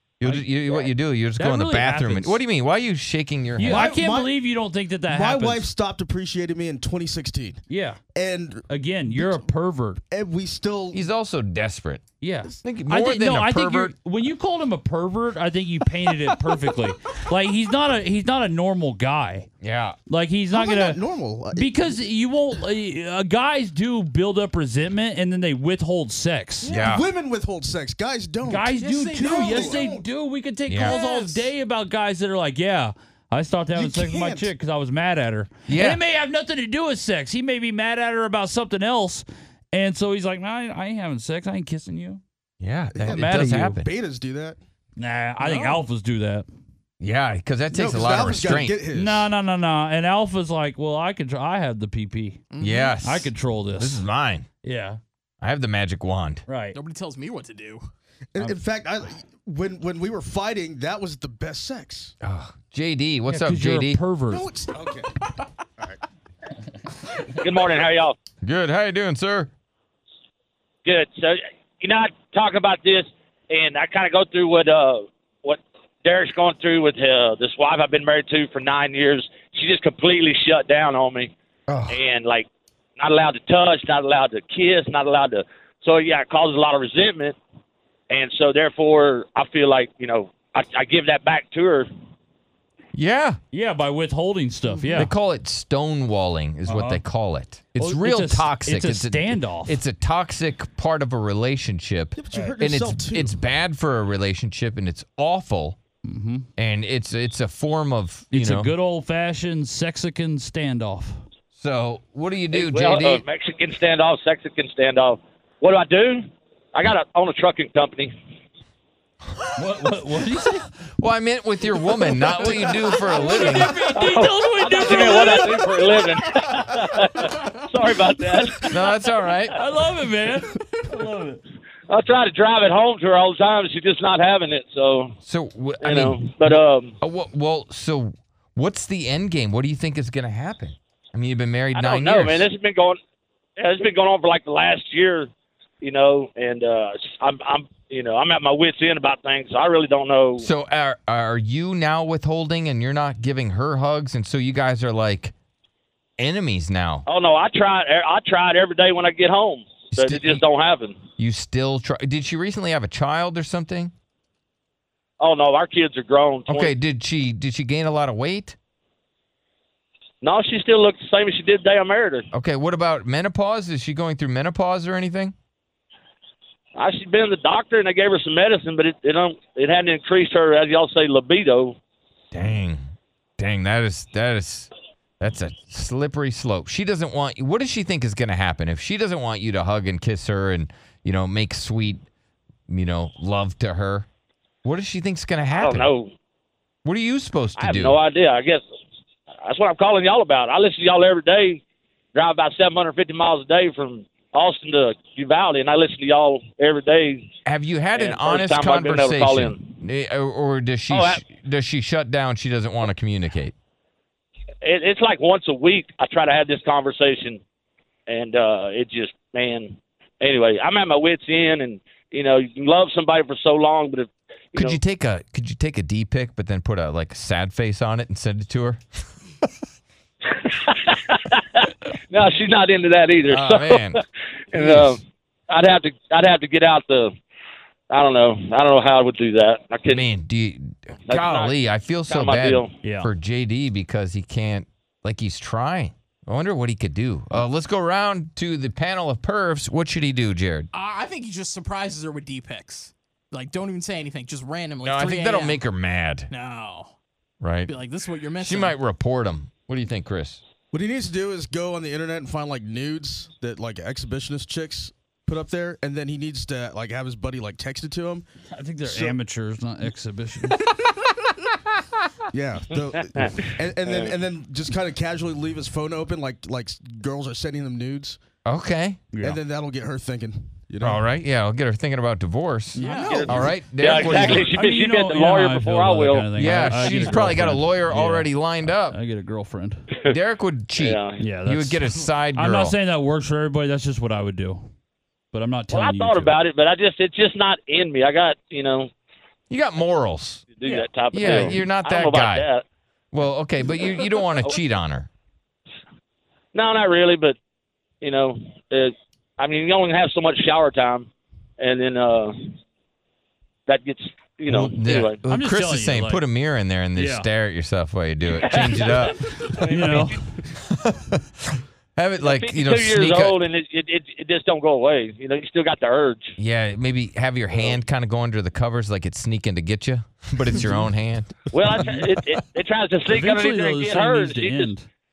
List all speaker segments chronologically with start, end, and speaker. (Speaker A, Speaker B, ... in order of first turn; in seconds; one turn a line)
Speaker A: 0.2-3.9
Speaker B: 1.4-2.4
Speaker B: 3.6-5.7
Speaker C: 3.6-4.3
Speaker C: 5.0-7.6
Speaker B: 7.7-8.0
Speaker C: 8.1-9.5
Speaker B: 8.7-10.0
Speaker C: 10.1-11.0
Speaker A: 10.9-12.0
Speaker B: 12.2-19.5
Speaker A: 12.6-13.9
Speaker A: 19.6-20.0
Speaker B: 20.1-21.0
Speaker C: 20.5-21.8
Speaker B: 21.5-26.7
Speaker C: 26.6-29.9
Speaker A: 26.7-27.0
Speaker B: 28.4-42.2
Speaker D: 28.7-30.0
Speaker A: 30.7-31.0
Speaker C: 30.8-31.4
Speaker C: 33.7-34.5
Speaker A: 35.7-36.0
Speaker A: 42.6-43.9
Speaker C: 42.9-44.6
Speaker B: 43.1-43.7
Speaker B: 45.0-46.5
Speaker D: 45.4-45.8
Speaker A: 47.0-48.8
Speaker C: 47.7-49.3
Speaker B: 48.9-52.4
Speaker D: 52.5-53.0
Speaker A: 52.6-54.5
Speaker B: 53.0-54.0
Speaker B: 54.6-55.0
Speaker A: 55.4-56.4
Speaker B: 56.5-56.8
Speaker D: 56.7-57.8
Speaker C: 58.3-62.1
Speaker A: 62.2-64.0
Speaker B: 63.3-64.4
Speaker C: 64.3-65.1
Speaker E: 67.4-68.2
Speaker A: 68.4-69.5
Speaker E: 70.8-81.3
Speaker E: 81.9-87.4
Speaker E: 88.1-91.9
Speaker A: 92.9-93.4
Speaker B: 93.5-95.1
Speaker A: 94.9-105.8
Speaker B: 96.6-97.0
Speaker B: 97.8-99.8
Speaker C: 102.2-103.4
Speaker B: 106.0-106.5
Speaker A: 106.6-108.7
Speaker B: 108.3-111.2
Speaker A: 111.5-113.2
Speaker E: 112.5-118.1
Speaker B: 119.6-120.7
Speaker A: 120.9-123.7
Speaker B: 122.0-125.8
Speaker E: 123.9-128.9
Speaker A: 128.7-129.6
Speaker B: 129.5-131.4
Speaker E: 131.9-135.1
Speaker A: 135.2-142.5
Speaker E: 135.8-136.9
Speaker E: 141.7-143.0
Speaker E: 143.6-145.3
Speaker E: 145.8-150.5
Speaker A: 150.4-155.3
Speaker A: 156.2-157.0
Speaker E: 157.1-161.0
Speaker A: 159.9-160.4
Speaker A: 161.2-163.9
Speaker E: 165.2-166.7
Speaker A: 166.5-168.6
Speaker E: 170.2-172.2
Speaker A: 172.3-175.3
Speaker E: 176.8-181.8
Speaker A: 182.3-182.8
Speaker A: 183.4-192.0
Speaker A: 192.7-194.1
Speaker A: 194.6-195.9
Speaker E: 195.6-196.1
Speaker A: 196.8-198.0
Speaker E: 197.6-198.6
Speaker E: 199.4-201.6
Speaker E: 202.1-207.3
Speaker A: 207.4-213.5
Speaker E: 207.9-209.6
Speaker E: 210.9-211.2
Speaker E: 214.6-217.4
Speaker E: 218.1-224.8
Speaker A: 224.6-228.8
Speaker E: 230.3-234.0
Speaker A: 233.3-234.0
Speaker E: 234.5-237.1
Speaker A: 234.5-235.0
Speaker E: 237.9-240.0
Speaker A: 239.9-250.7
Speaker E: 241.1-242.7
Speaker B: 242.8-243.1
Speaker D: 250.7-255.6
Speaker A: 254.8-256.3
Speaker D: 256.3-256.9
Speaker A: 257.4-257.7
Speaker D: 257.7-258.8
Speaker A: 258.4-260.4
Speaker C: 260.7-268.2
Speaker B: 268.5-270.6
Speaker C: 268.8-269.2
Speaker C: 272.3-278.2
Speaker E: 273.2-274.1
Speaker A: 278.4-279.0
Speaker B: 279.1-279.4
Speaker C: 279.2-281.0
Speaker A: 280.8-284.5
Speaker D: 282.8-284.0
Speaker E: 282.8-287.4
Speaker B: 284.0-289.9
Speaker A: 286.4-288.9
Speaker A: 290.1-292.8
Speaker E: 290.8-291.2
Speaker B: 291.2-294.7
Speaker B: 295.3-296.4
Speaker E: 295.7-298.9
Speaker A: 299.5-302.5
Speaker E: 300.6-302.6
Speaker B: 301.2-301.6
Speaker A: 303.1-305.1
Speaker E: 304.0-304.6
Speaker E: 306.5-307.4
Speaker E: 308.0-311.1
Speaker E: 311.6-312.5
Speaker E: 313.7-315.2
Speaker A: 314.5-319.3
Speaker B: 315.3-316.2
Speaker B: 316.9-317.3
Speaker E: 318.3-320.1
Speaker B: 319.7-320.2
Speaker A: 320.5-321.2
Speaker A: 321.9-323.4
Speaker E: 322.2-326.3
Speaker A: 326.4-331.9
Speaker E: 331.5-334.7
Speaker B: 333.1-334.9